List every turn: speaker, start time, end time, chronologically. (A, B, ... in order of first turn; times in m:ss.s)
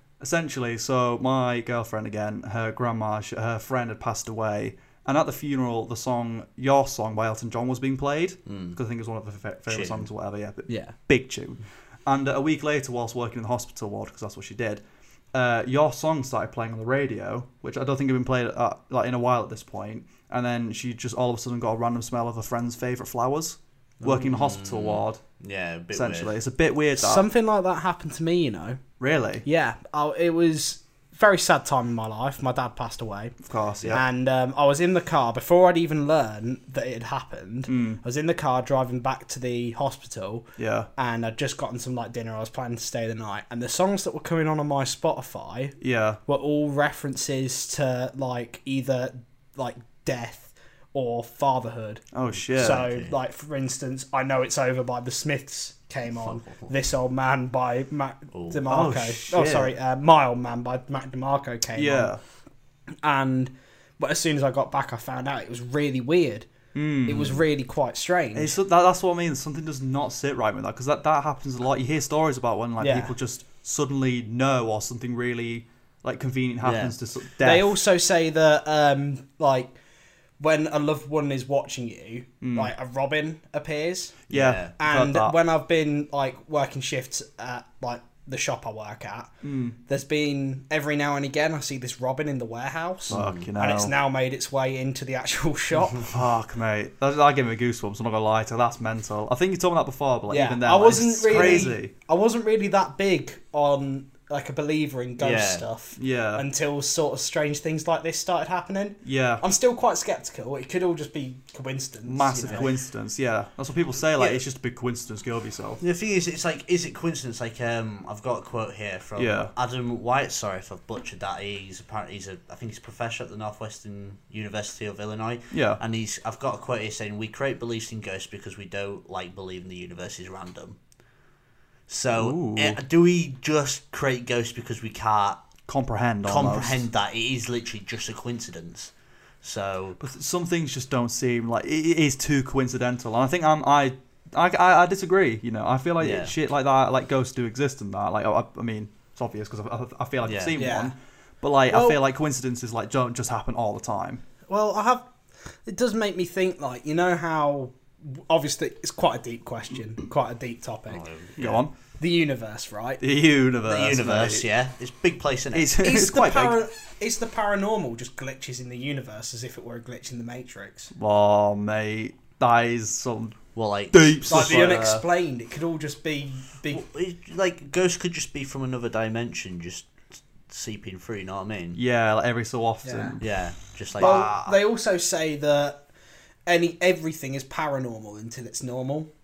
0:00.2-0:14.8 A
0:08.5-0:08.8 B
0:09.7-0:10.1 B
0:10.7-0:10.9 C
0:15.3-0:25.2 A
0:24.0-0:26.3 B
0:25.9-0:27.3 A
0:27.0-0:28.8 C
0:29.0-0:29.4 A
0:29.4-0:33.4 C
0:33.4-0:34.0 A
0:33.9-0:52.0 C
0:37.7-0:38.0 A
0:40.6-0:40.9 A
0:45.8-0:46.2 A
0:52.1-0:52.9 A
0:52.3-0:53.1 B
0:52.5-1:02.1 C
0:56.1-0:56.7 B
0:58.3-0:58.7 B
0:58.7-0:59.7 A
1:01.7-1:02.2 A
1:03.0-1:06.5 C
1:06.7-1:07.4 A
1:07.0-1:08.6 C
1:08.3-1:17.7 A
1:12.8-1:13.1 C
1:16.6-1:16.9 B
1:17.4-1:19.8 C
1:20.4-1:24.2 C
1:22.4-1:22.7 A
1:24.3-1:25.4 A
1:24.3-1:24.7 B
1:24.8-1:29.3 C
1:29.4-1:29.8 A
1:29.9-1:36.1 C
1:33.1-1:33.9 A
1:33.1-1:33.5 B
1:36.0-1:41.9 A
1:40.3-1:52.8 C
1:41.3-1:41.6 B
1:45.2-1:45.6 B
1:46.0-1:46.4 A
1:49.0-1:49.4 A
1:52.0-1:55.8 A
1:55.8-2:10.8 B
1:59.2-1:59.5 A
2:05.5-2:05.8 A
2:11.9-2:15.4 B
2:12.1-2:12.8 A
2:15.7-2:16.8 A
2:16.2-2:18.9 B
2:19.4-2:20.0 B
2:20.0-2:34.2 A
2:26.0-2:26.3 B
2:30.2-2:30.6 B
2:30.6-2:30.9 C
2:31.7-2:32.0 C
2:34.5-2:43.0 C
2:40.9-2:41.6 B
2:41.4-2:41.7 A
2:43.0-2:44.4 A
2:43.6-2:45.7 B
2:45.5-2:46.6 A
2:45.8-2:50.9 C
2:50.9-2:55.0 A
2:53.5-2:54.7 B
2:54.3-2:56.8 C
2:56.7-3:01.8 B
3:01.7-3:03.3 A
3:02.8-3:03.2 C
3:03.2-3:04.5 B
3:03.9-3:04.4 A
3:04.0-3:05.8 C
3:06.4-3:09.1 C